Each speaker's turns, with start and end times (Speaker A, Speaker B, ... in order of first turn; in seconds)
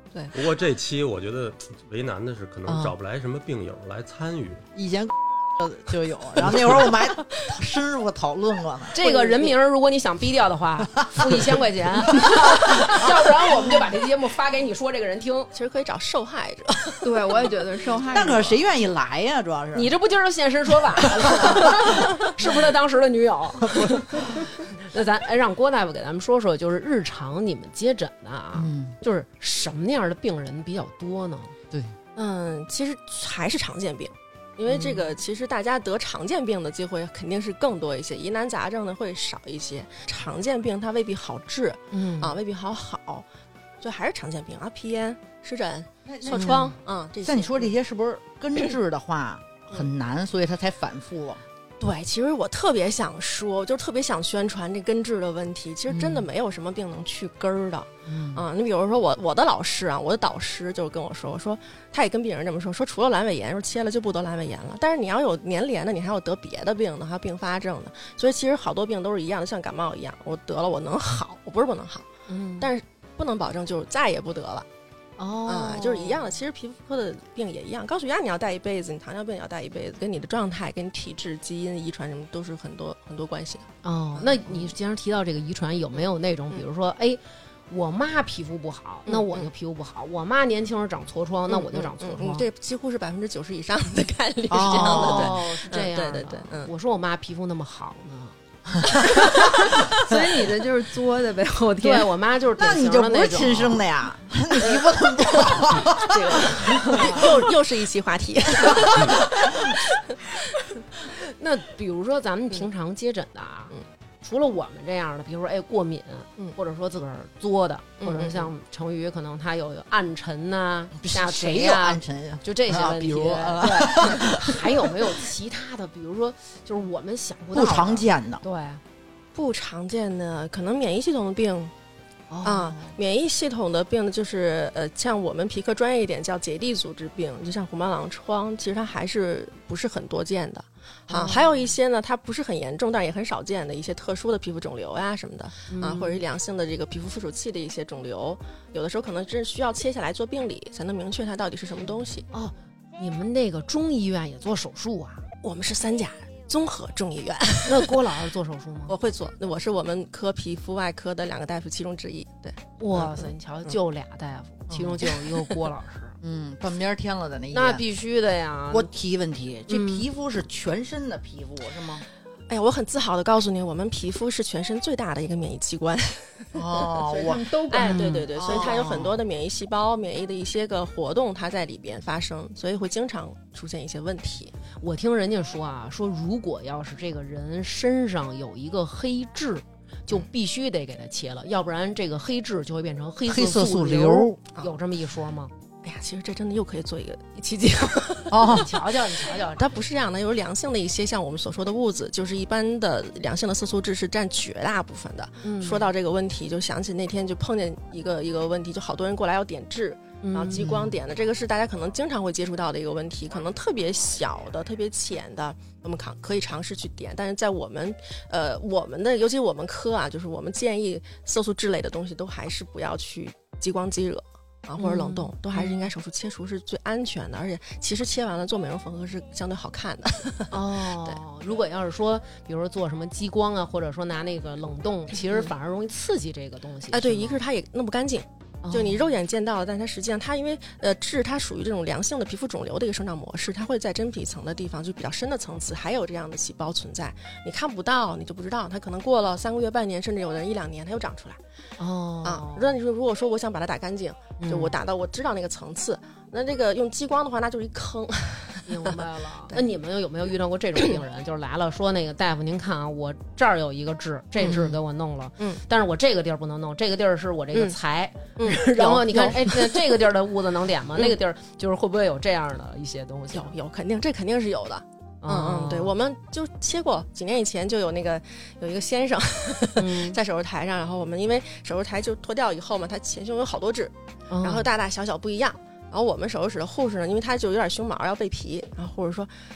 Speaker A: 0.3-4.6
Speaker B: 2.7-2.9, 4.7-9.0, 11.0-11.6, 12.3-13.0, 18.1-19.9, 21.0-22.2, 23.6-24.4, 28.5-28.9, 46.0-51.4, 55.9-56.3, 58.0-58.5, 94.5-95.4, 102.6-107.3, 108.7-108.9, 121.0-125.1, 127.5-128.4, 164.7-165.3, 166.2-167.8, 168.7-172.1, 176.5-177.6, 178.4-179.2, 193.3-194.4, 198.3-198.7, 210.6-210.9
Speaker C: 8.9-15.5, 19.7-31.5, 34.7-35.0, 41.9-42.4, 46.3-46.7, 72.3-72.7, 75.2-76.2, 83.8-92.4, 94.6-99.4, 101.8-103.8, 106.8-107.2, 111.2-128.8, 132.3-133.0, 141.1-141.7, 145.7-146.2, 152.3-155.2, 157.7-158.9, 162.8-166.2, 167.5-168.9, 169.7-170.1, 177.8-178.6, 184.8-195.5, 198.4-199.6, 205.4-205.9, 210.2-210.7, 224.8-225.9, 230.5-237.4, 238.6-239.1, 251.8-252.8, 254.4-254.7, 258.7-273.5, 275.2-275.9, 279.8-280.2, 284.3-284.7
Speaker D: 9.0-9.5, 15.5-17.4, 32.1-43.2, 43.8-47.7, 51.8-72.1, 72.6-74.7, 75.5-84.7, 89.0-89.5, 91.5-96.7, 105.2-109.8, 118.0-118.5, 129.3-131.7, 132.4-152.2, 155.4-158.0, 158.9-163.8, 172.5-177.1, 177.7-184.5, 195.8-198.6, 199.2-231.2, 235.1-235.5, 236.9-251.4, 252.2-259.6, 264.4-264.8, 268.4-270.0, 273.3-289.3
Speaker E: 17.0-18.6, 99.9-102.1, 177.1-178.6